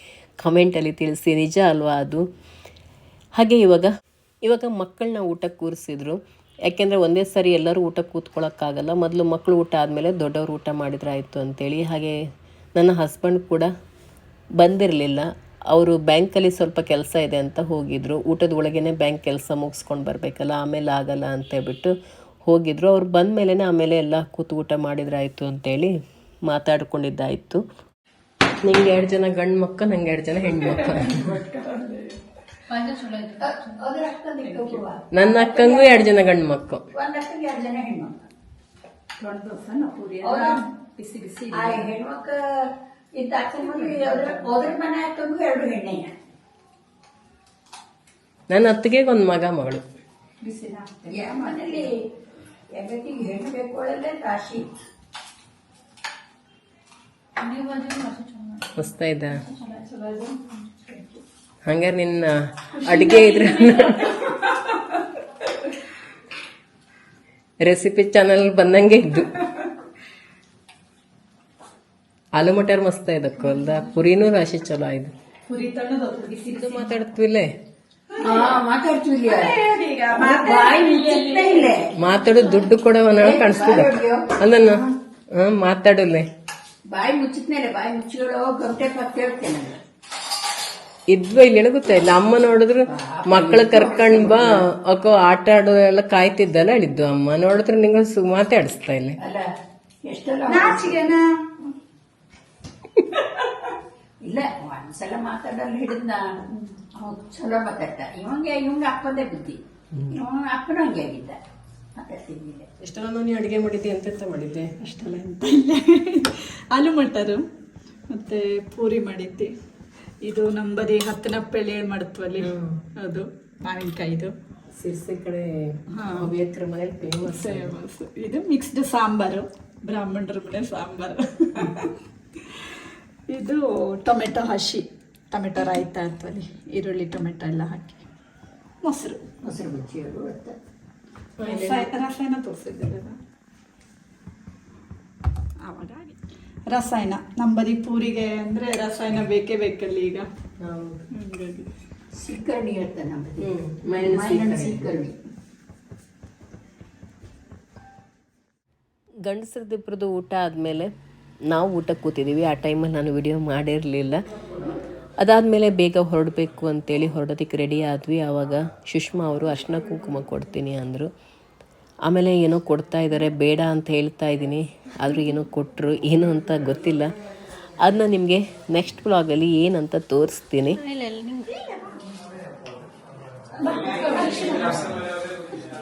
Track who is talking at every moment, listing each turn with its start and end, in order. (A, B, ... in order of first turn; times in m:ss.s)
0:00.4-0:02.2 A
0:03.4-0:03.9 A
0:04.4-0:12.2 A
0:12.8-0:13.7 A
0:14.6-0:21.9 A
0:22.4-0:25.9 A
0:26.5-0:27.6 A
0:28.6-0:31.3 A
0:30.6-0:33.8 B
0:33.4-0:36.1 C
0:34.4-0:34.8 B
0:35.1-0:36.8 A
0:36.9-0:38.2 C
0:39.2-0:41.8 B
0:40.2-0:40.6 C
0:41.5-0:46.1 C
0:43.6-0:44.7 B
0:48.5-0:49.8 A
0:50.4-0:51.9 B
0:51.1-0:52.0 C
0:52.7-0:54.7 C
0:57.4-1:01.2 B
0:58.7-0:59.4 A
1:01.6-1:04.3 A
1:02.7-1:05.0 B
1:07.6-1:09.4 A
1:12.4-1:15.1 A
1:13.5-1:13.9 B
1:15.5-1:17.0 B
1:16.5-1:17.5 A
1:18.1-1:18.6 B
1:18.2-1:19.6 C
1:19.2-1:22.6 B
1:20.1-1:21.9 C
1:22.0-1:24.8 A
1:23.2-1:24.4 C
1:24.6-1:24.9 B
1:25.3-1:26.3 A
1:26.9-1:29.8 C
1:31.1-1:39.2 A
1:32.8-1:34.6 C
1:39.2-1:39.5 C
1:40.0-1:41.0 C
1:40.5-1:41.3 B
1:44.2-1:51.4 C
1:52.0-1:52.7 C
1:52.8-1:54.7 A
1:54.8-1:57.4 B
1:58.1-1:59.5 B
2:00.2-2:04.3 B
2:02.4-2:02.8 A
2:04.8-2:07.7 A
2:06.0-2:06.3 B
2:07.2-2:11.9 B
2:13.3-2:18.1 B
2:18.8-2:19.2 B
2:19.4-2:20.6 C
2:21.4-2:21.9 A
2:21.4-2:23.2 B
2:25.6-2:30.3 B
2:30.6-2:31.0 A
2:31.1-2:31.7 B
2:32.1-2:35.2 C
2:33.4-2:34.9 A
2:39.2-2:40.9 A
2:41.5-2:44.2 A
2:45.2-2:51.1 A
2:52.1-2:57.1 A
2:57.8-3:00.8 A
3:01.0-3:01.4 B
3:03.6-3:05.0 B